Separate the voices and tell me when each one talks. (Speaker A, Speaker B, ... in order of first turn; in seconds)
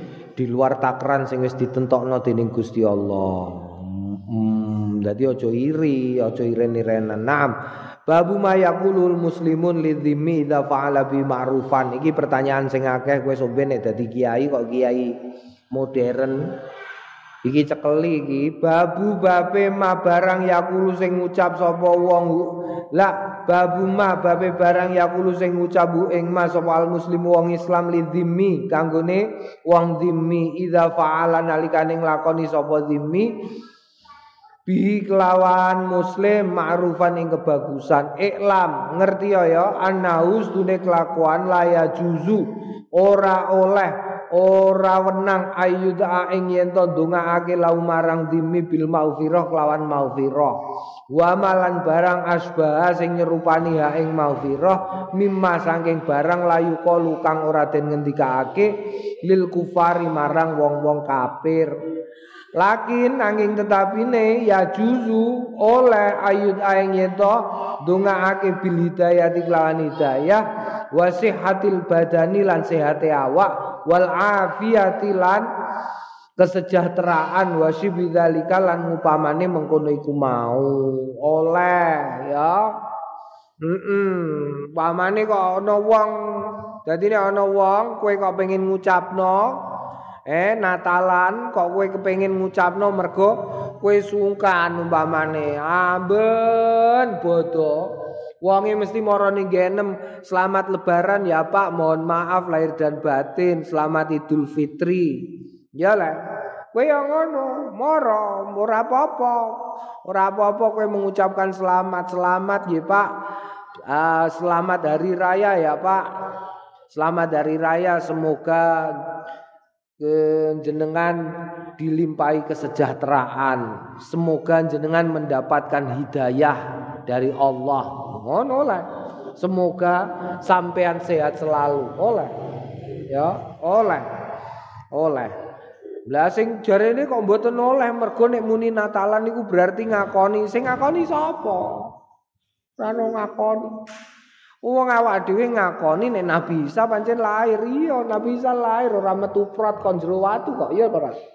Speaker A: 0.3-7.5, 8.1-15.1, 15.7-16.4, 17.4-33.3, 34.6-50.6, 51.1-58.7, 59.2-61.7, 62.6-75.5, 76.4-82.7, 83.6-89.5, 90.3-97.9, 98.4-106.2, 106.7-109.5, 110.0-113.1, 113.9-116.0, 116.9-119.0, 120.0-121.2, 121.8-128.8, 129.4-132.3, 133.1-134.1, 134.9-135.3, 136.1-141.9, 142.8-143.7, 144.6-151.2